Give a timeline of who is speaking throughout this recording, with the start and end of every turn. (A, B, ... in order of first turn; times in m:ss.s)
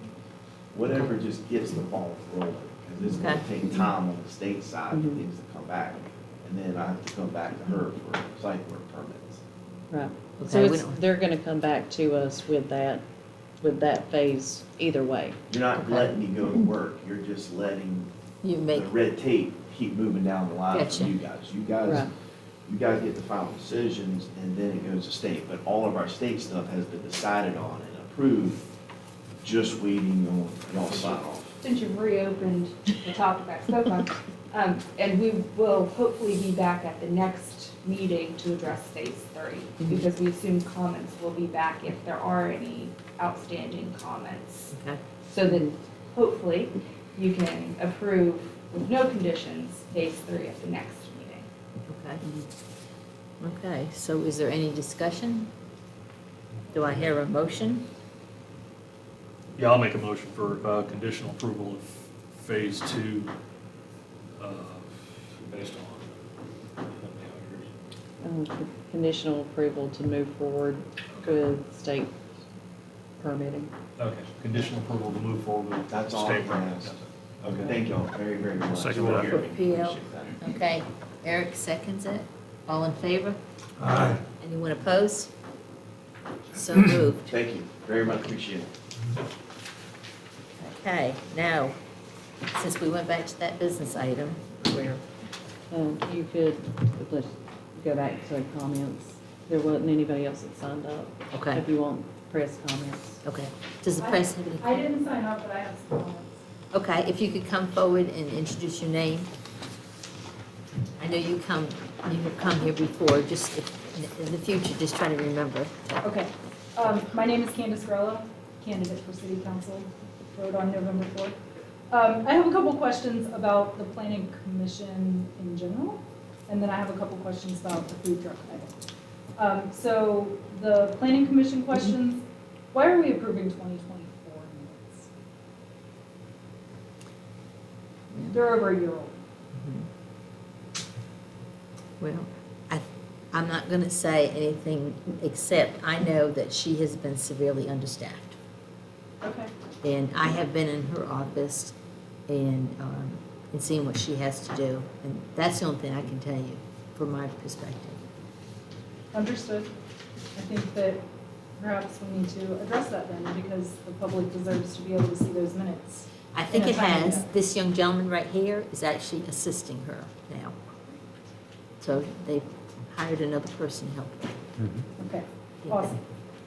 0:00.7-0:09.4 A
0:03.0-0:03.4 B
0:04.9-0:05.2 C
0:09.9-0:13.0 C
0:10.4-0:11.0 B
0:13.6-0:15.4 C
0:15.5-0:18.1 A
0:15.8-0:16.1 B
0:18.4-0:18.9 B
0:18.7-0:22.1 A
0:20.7-0:21.2 B
0:22.6-0:28.6 A
0:29.4-0:31.6 A
0:30.9-0:44.7 D
0:39.8-0:40.0 C
0:44.7-0:45.0 B
0:45.2-0:51.4 D
0:45.5-0:45.7 C
0:51.9-0:52.2 B
0:52.2-0:52.5 C
0:53.4-0:55.5 B
0:56.7-0:57.8 B
0:59.6-1:01.8 E
1:02.3-1:03.3 E
1:04.4-1:06.0 E
1:06.9-1:07.7 E
1:08.2-1:12.1 C
1:13.2-1:13.7 C
1:14.0-1:16.7 E
1:15.9-1:20.4 A
1:18.7-1:19.3 E
1:19.2-1:23.4 B
1:24.1-1:25.3 B
1:26.5-1:27.3 B
1:27.3-1:28.7 A
1:30.6-1:31.7 B
1:32.5-1:35.0 B
1:35.7-1:43.2 C
1:41.3-1:41.6 B
1:43.2-1:44.9 B
1:44.0-1:46.4 F
1:46.7-1:49.3 B
1:51.0-1:56.1 B
1:56.0-2:01.4 F
2:01.9-2:08.8 F
2:09.4-2:15.1 F
2:18.1-2:18.4 B
2:18.3-2:19.2 F
2:19.5-2:19.9 B
2:22.0-2:28.4 B
2:29.2-2:29.5 F
2:29.8-2:31.7 B
2:32.3-2:38.0 B
2:39.1-2:39.7 F
2:40.3-2:41.0 F
2:41.6-2:47.3 F
2:46.3-2:50.6 B
2:51.8-2:54.4 B
2:55.0-2:56.0 F
2:55.6-2:56.0 B